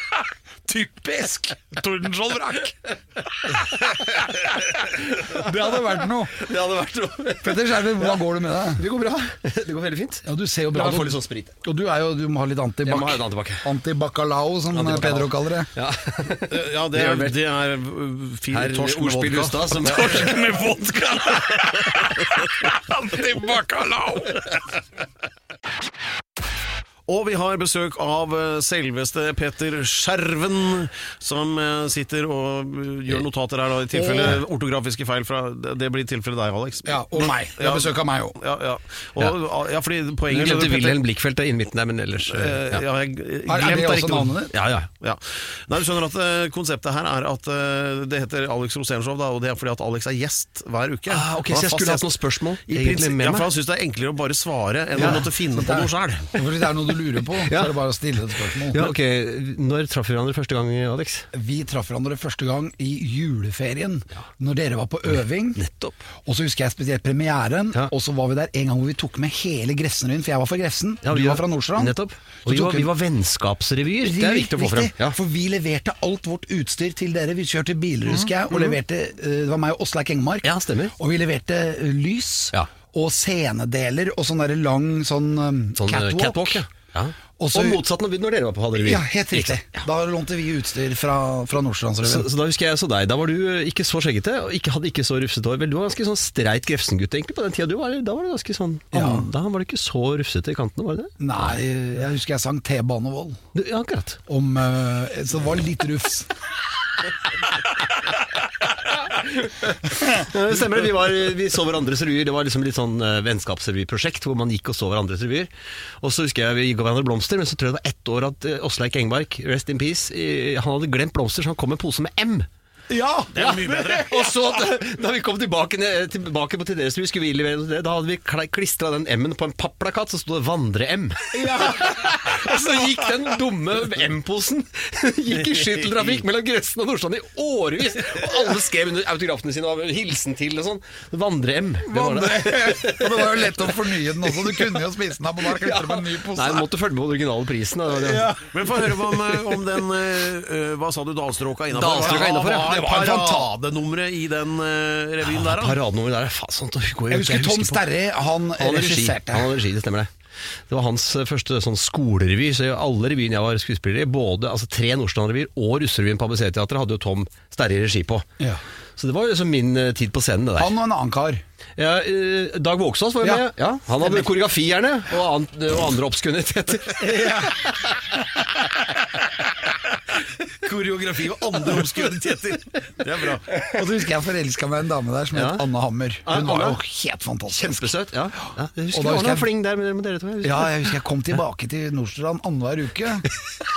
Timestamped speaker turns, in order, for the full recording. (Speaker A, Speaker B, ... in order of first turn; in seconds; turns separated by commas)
Speaker A: 0.7-2.8, Speaker B: 3.9-4.3, Speaker A: 4.4-6.4, Speaker B: 6.3-8.2, Speaker A: 7.4-8.8, Speaker B: 8.7-11.5, Speaker A: 10.2-15.7, Speaker B: 12.8-13.7, Speaker B: 14.7-17.4, Speaker C: 16.5-19.8, Speaker B: 18.5-20.4, Speaker A: 19.8-24.6, Speaker C: 27.1-41.0, Speaker A: 33.9-34.4, Speaker A: 36.9-38.4, Speaker B: 40.3-42.8, Speaker C: 42.3-44.4, Speaker A: 43.5-44.5, Speaker B: 44.5-44.9, Speaker C: 45.0-52.1, Speaker B: 51.1-53.5, Speaker C: 52.7-56.3, Speaker B: 55.0-55.2, Speaker A: 55.0-58.9, Speaker B: 57.5-57.7, Speaker B: 58.7-61.3, Speaker A: 61.3-65.6, Speaker B: 65.5-66.0, Speaker A: 66.2-72.9, Speaker B: 71.0-75.2, Speaker A: 74.0-86.6, Speaker B: 80.4-80.9, Speaker B: 85.8-89.8, Speaker A: 87.4-87.8, Speaker A: 88.8-92.3, Speaker B: 92.0-101.2, Speaker A: 98.9-99.3, Speaker A: 101.2-103.4, Speaker B: 103.5-104.2, Speaker A: 104.3-106.3, Speaker B: 108.9-122.5, Speaker A: 122.9-124.5, Speaker C: 123.3-124.1, Speaker B: 123.4-144.8, Speaker A: 131.3-132.9, Speaker C: 135.5-136.2, Speaker A: 141.9-146.7, Speaker B: 145.4-148.7, Speaker A: 148.0-148.5, Speaker C: 148.5-155.8, Speaker B: 151.7-152.7, Speaker A: 152.0-153.5, Speaker B: 155.2-157.9, Speaker A: 157.1-159.5, Speaker B: 158.6-160.1, Speaker B: 160.7-168.3, Speaker B: 169.0-170.7, Speaker A: 170.6-171.4, Speaker B: 171.8-177.9, Speaker A: 173.2-173.5, Speaker A: 174.0-174.3, Speaker A: 177.0-177.6, Speaker C: 180.4-183.5, Speaker A: 183.5-187.9, Speaker B: 185.3-185.7, Speaker B: 186.2-186.8, Speaker B: 187.5-191.0, Speaker A: 188.9-189.5, Speaker A: 190.4-193.3